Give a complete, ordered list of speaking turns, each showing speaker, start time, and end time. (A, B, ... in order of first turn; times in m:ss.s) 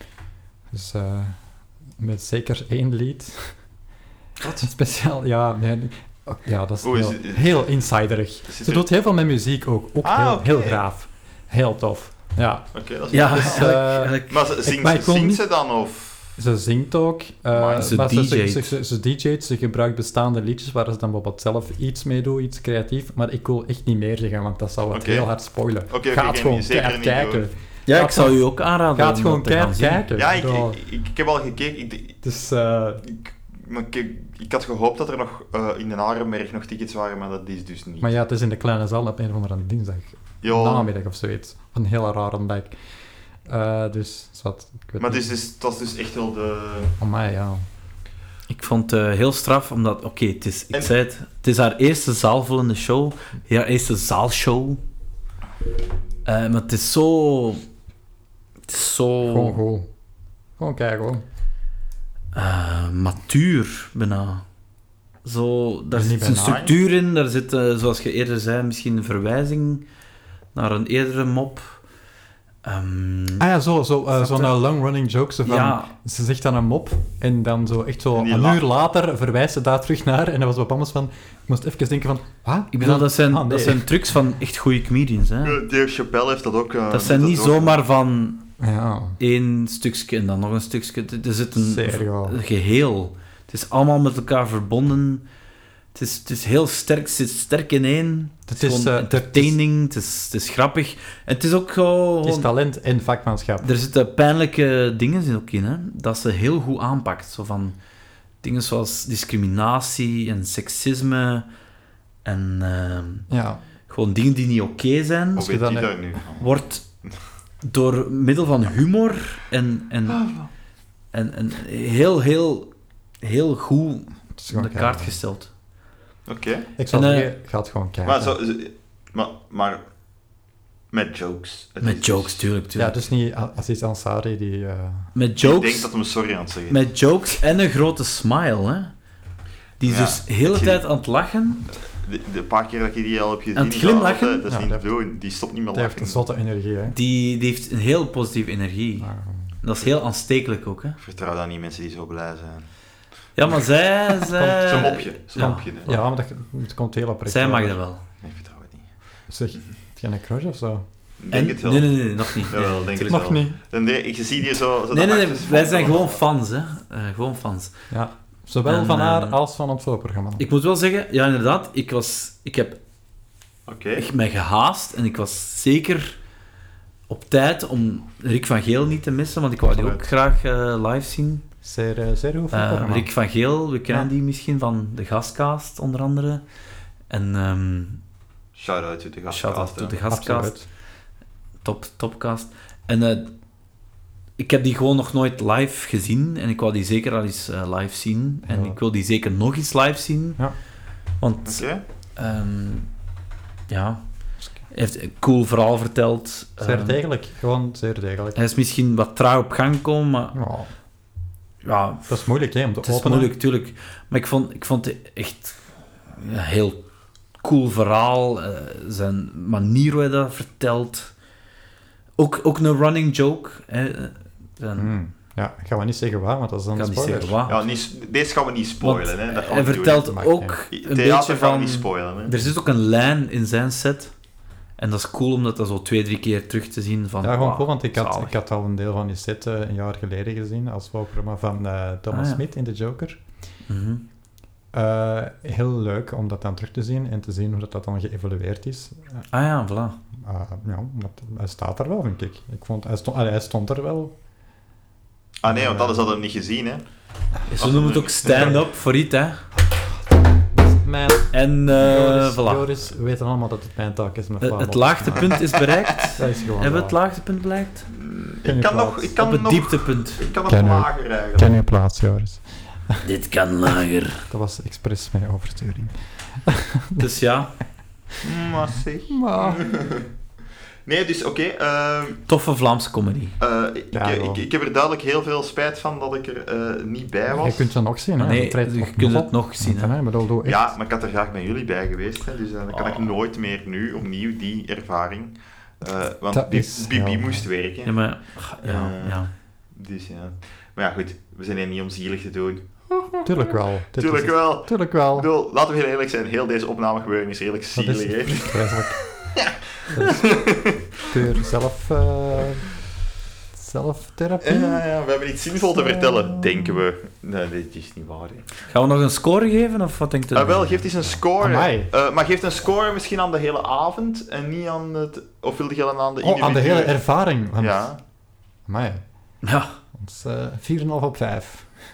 0:00.7-0:01.4 A
0:02.0-0:03.6 A
0:04.6-0:15.4 A
0:06.8-0:07.7 B
0:08.5-0:08.9 B
0:10.0-0:10.8 B
0:12.7-0:16.4 B
0:13.1-0:14.4 C
0:16.4-0:28.4 A
0:17.5-0:18.0 B
0:17.8-0:18.8 C
0:24.9-0:25.3 B
0:25.9-0:27.4 B
0:27.9-0:30.0 C
0:29.0-0:30.8 A
0:30.2-0:32.2 B
0:32.2-0:33.1 A
0:33.0-0:38.1 B
0:38.0-0:42.8 A
0:40.4-0:40.9 B
0:43.5-0:45.3 A
0:45.0-0:46.9 B
0:47.0-0:47.6 A
0:48.5-0:54.8 C
0:56.2-0:57.6 C
0:58.7-0:59.6 C
0:59.2-0:59.9 A
1:00.6-1:01.2 A
1:02.3-1:04.4 C
1:05.2-1:09.8 C
1:05.9-1:06.7 A
1:06.3-1:06.8 B
1:10.5-1:11.8 C
1:12.6-1:13.4 C
1:13.4-1:23.9 A
1:14.2-1:14.6 C
1:15.5-1:15.9 C
1:18.2-1:18.6 B
1:22.7-1:25.6 C
1:25.4-1:27.8 B
1:26.9-1:28.4 C
1:28.6-1:29.2 A
1:29.2-1:35.2 C
1:31.6-1:32.4 A
1:35.9-1:42.5 C
1:38.5-1:39.6 A
1:42.2-1:43.7 A
1:43.6-1:47.8 C
1:48.4-1:51.5 C
1:52.2-1:53.3 C
1:53.3-1:53.6 A
1:53.9-1:55.5 C
1:55.4-1:56.5 B
1:55.4-1:55.9 A
1:56.4-1:56.8 C
1:57.6-2:00.3 C
2:00.1-2:00.5 B
2:01.1-2:02.7 C
2:03.2-2:05.5 C
2:04.4-2:05.2 A
2:06.3-2:06.7 B
2:06.8-2:08.4 A
2:06.9-2:07.3 C
2:08.0-2:09.8 B
2:10.9-2:12.4 B
2:11.8-2:13.0 C
2:12.8-2:15.1 A
2:15.2-2:15.9 C
2:15.4-2:16.8 B
2:16.7-2:18.9 C
2:19.8-2:21.7 C
2:19.8-2:20.8 B
2:21.8-2:26.2 B
2:23.6-2:24.4 C
2:24.5-2:24.9 A
2:25.7-2:27.0 A
2:26.9-2:29.1 C
2:29.0-2:29.6 A
2:29.6-2:31.0 C
2:31.0-2:32.7 B
2:33.4-2:35.7 C
2:34.4-2:37.8 A
2:34.6-2:36.0 B
2:37.3-2:38.0 C
2:38.2-2:38.9 B
2:39.3-2:40.8 A
2:41.2-2:46.2 B
2:41.3-2:43.3 C
2:43.0-2:43.6 A
2:44.9-2:47.8 C
2:47.9-2:50.4 A
2:48.7-2:49.4 C
2:50.4-2:52.8 C
2:53.7-2:54.1 B
2:54.0-2:56.2 C
2:57.1-3:01.4 C
2:59.7-3:00.1 B
3:01.6-3:03.1 A
3:02.5-3:06.4 C
3:07.1-3:08.0 C
3:08.6-3:10.0 B
3:09.3-3:10.6 C
3:10.1-3:10.6 A
3:11.6-3:13.3 C
3:14.4-3:20.4 C
3:18.5-3:18.8 A
3:21.2-3:22.9 C
3:21.4-3:21.8 B
3:23.7-3:24.0 C
3:24.7-3:27.0 C
3:26.6-3:28.4 A
3:28.4-3:30.4 C
3:30.3-3:30.7 A
3:31.6-3:32.2 C
3:32.1-3:33.3 A
3:32.8-3:36.8 C
3:37.4-3:41.1 C
3:42.2-3:44.9 C
3:44.8-3:47.4 A
3:46.8-3:47.6 C
3:47.5-3:50.1 B
3:48.8-3:54.1 C
3:50.0-3:50.6 A
3:50.7-3:52.4 B
3:54.8-3:58.3 C
3:57.2-4:03.2 A
4:02.1-4:02.4 C
4:03.7-4:04.0 C
4:04.7-4:09.2 A
4:09.3-4:10.0 C
4:10.1-4:14.1 A
4:15.4-4:16.8 B
4:15.5-4:16.1 A
4:17.5-4:19.4 C
4:17.6-4:18.7 B
4:20.6-4:25.4 A
4:21.3-4:22.7 C
4:24.4-4:27.9 C
4:25.4-4:26.1 B
4:26.1-4:27.0 A
4:27.9-4:31.5 B
4:28.4-4:29.1 A
4:29.2-4:30.2 C
4:30.5-4:33.0 A
4:33.0-4:34.2 C
4:34.3-4:37.1 A
4:37.0-4:37.5 C
4:38.2-4:40.1 B
4:39.1-4:39.7 A
4:40.9-4:42.2 B
4:42.3-4:43.4 C
4:43.4-4:47.7 B
4:43.9-4:44.4 A
4:47.3-4:50.7 A
4:48.2-4:50.0 C
4:50.4-4:58.0 B
4:56.3-4:57.4 A
4:57.8-4:59.3 C
4:58.6-5:08.8 B
5:03.2-5:05.3 A
5:07.8-5:09.1 A
5:09.3-5:10.9 B
5:09.9-5:12.7 A
5:13.5-5:14.8 A
5:14.4-5:18.5 B
5:15.6-5:16.8 A
5:18.7-5:20.8 C
5:20.3-5:27.0 B
5:21.4-5:21.9 A
5:26.2-5:27.9 A
5:27.6-5:28.0 B
5:28.7-5:29.0 A
5:29.4-5:29.7 C
5:30.0-5:31.7 A